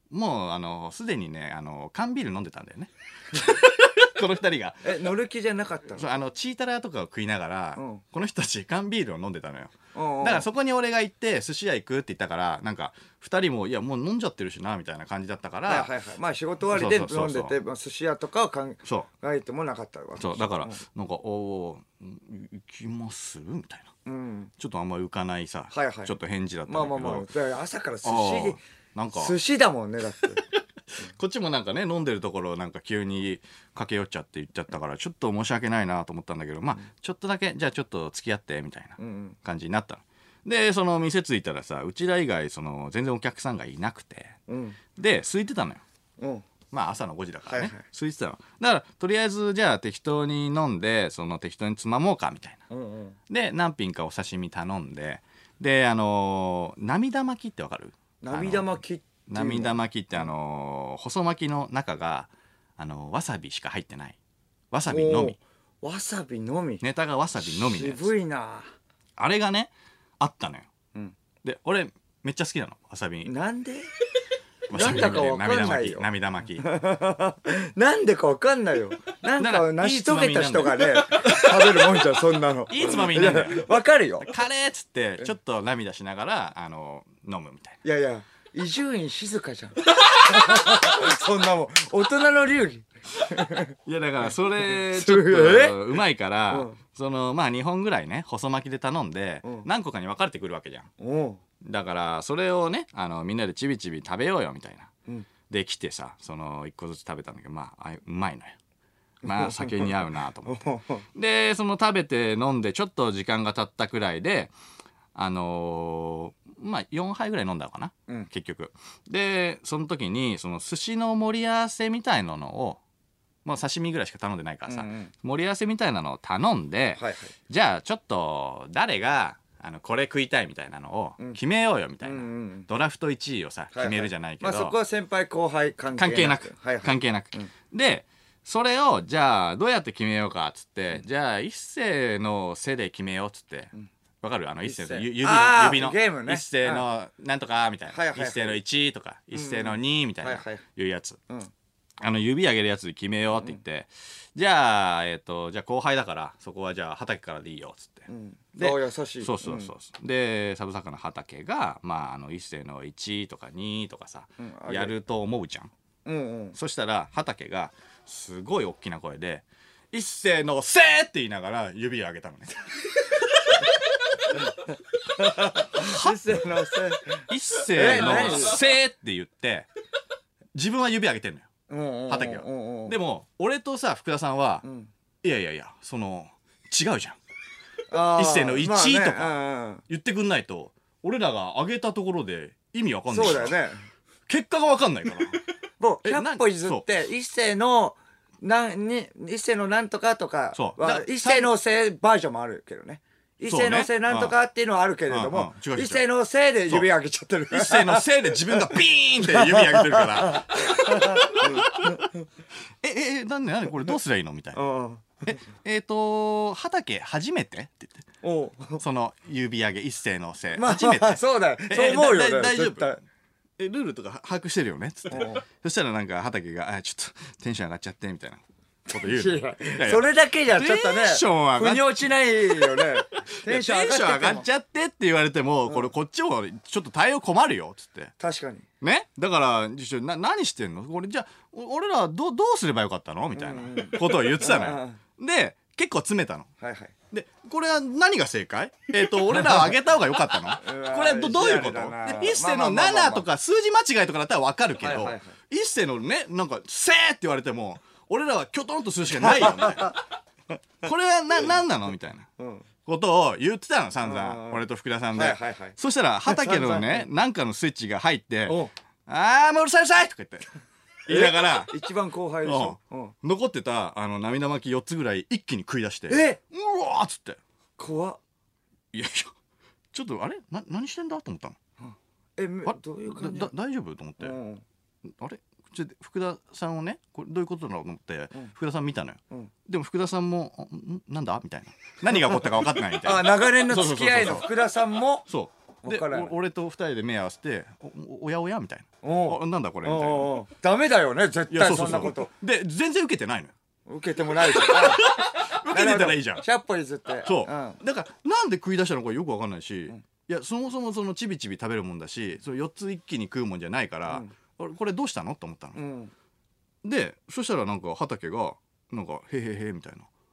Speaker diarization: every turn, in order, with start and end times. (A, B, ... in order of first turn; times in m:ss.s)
0:00.1-0:04.9 A
0:04.8-0:06.1 B
0:06.0-0:15.9 A
0:07.8-0:08.0 B
0:09.9-0:10.5 B
0:15.7-0:20.8 B
0:16.7-0:17.5 A
0:20.2-0:23.9 A
0:24.0-0:24.5 B
0:24.6-0:27.3 A
0:25.7-0:26.1 B
0:26.7-0:28.6 B
0:28.0-0:29.4 A
0:29.1-0:30.4 B
0:30.5-0:44.4 A
0:39.0-0:39.4 B
0:44.5-0:44.8 B
0:45.0-0:45.8 A
0:46.2-0:46.4 B
0:46.7-0:52.6 A
0:47.5-0:47.8 B
0:52.7-0:53.2 B
0:53.3-1:04.2 A
0:58.2-0:59.7 B
1:04.7-1:05.4 A
1:04.9-1:06.8 B
1:06.8-1:08.1 A
1:07.4-1:08.7 B
1:09.2-1:10.7 A
1:11.4-1:13.3 A
1:13.2-1:13.9 B
1:14.7-1:16.6 A
1:14.7-1:16.1 B
1:16.6-1:24.3 B
1:19.4-1:22.0 A
1:22.7-1:27.8 A
1:27.8-1:33.7 B
1:30.3-1:30.8 A
1:33.3-1:40.9 A
1:34.7-1:36.8 B
1:41.0-1:41.4 B
1:41.6-1:44.9 A
1:45.5-1:48.6 A
1:49.2-1:50.6 A
1:49.2-1:51.0 B
1:51.1-1:54.5 A
1:55.1-2:02.8 A
2:03.4-2:14.7 A
2:04.7-2:05.1 B
2:07.0-2:07.3 B
2:12.0-2:12.7 B
2:13.7-2:17.5 B
2:15.9-2:31.2 A
2:24.6-2:26.8 B
2:27.9-2:28.6 B
2:29.3-2:30.6 B
2:32.0-2:45.7 A
2:38.1-2:39.7 B
2:44.4-2:44.9 B
2:46.0-2:46.6 B
2:46.5-2:52.5 A
2:53.2-2:53.7 A
2:55.1-2:58.6 B
2:55.7-2:56.4 A
2:57.3-2:59.7 A
3:00.5-3:01.5 A
3:01.7-3:03.0 B
3:02.1-3:04.6 A
3:04.6-3:04.9 B
3:05.2-3:07.2 A
3:07.9-3:09.8 B
3:08.1-3:09.3 A
3:09.9-3:13.6 A
3:13.1-3:13.8 B
3:14.3-3:15.4 A
3:15.8-3:32.2 B
3:16.0-3:16.8 A
3:20.5-3:21.5 A
3:23.5-3:24.4 A
3:25.1-3:26.0 A
3:27.5-3:32.1 A
3:32.8-3:34.6 A
3:34.5-3:35.4 B
3:35.2-3:38.0 A
3:38.2-3:38.8 B
3:38.8-3:42.9 A
3:40.5-3:43.0 B
3:43.6-3:58.1 A
3:45.1-3:45.4 B
3:48.9-3:54.4 B
3:58.2-3:58.6 B
3:58.8-4:06.5 A
4:03.3-4:05.0 B
4:06.6-4:06.9 B
4:07.1-4:20.0 A
4:10.6-4:13.2 B
4:14.8-4:15.3 B
4:19.2-4:20.0 B
4:20.8-4:22.3 A
4:22.4-4:22.6 B
4:22.8-4:30.5 A
4:24.0-4:24.6 B
4:25.1-4:27.1 B
4:28.5-4:28.7 B
4:31.0-4:31.7 A
4:31.1-4:33.1 B
4:32.4-4:37.4 A
4:36.1-4:36.4 B
4:37.8-4:38.2 B
4:38.9-4:39.3 A
4:39.9-4:41.6 A
4:41.8-4:43.5 B
4:42.6-4:44.3 A
4:44.2-4:44.6 B
4:45.0-4:54.5 A
4:52.2-4:55.3 B
4:55.3-5:00.4 A
4:55.8-4:56.3 B
4:59.0-5:02.3 B
5:01.5-5:03.5 A
5:03.8-5:07.8 B
5:04.4-5:06.4 A
5:07.2-5:15.8 A
5:14.1-5:14.3 B
5:15.7-5:16.1 B
5:16.8-5:20.1 A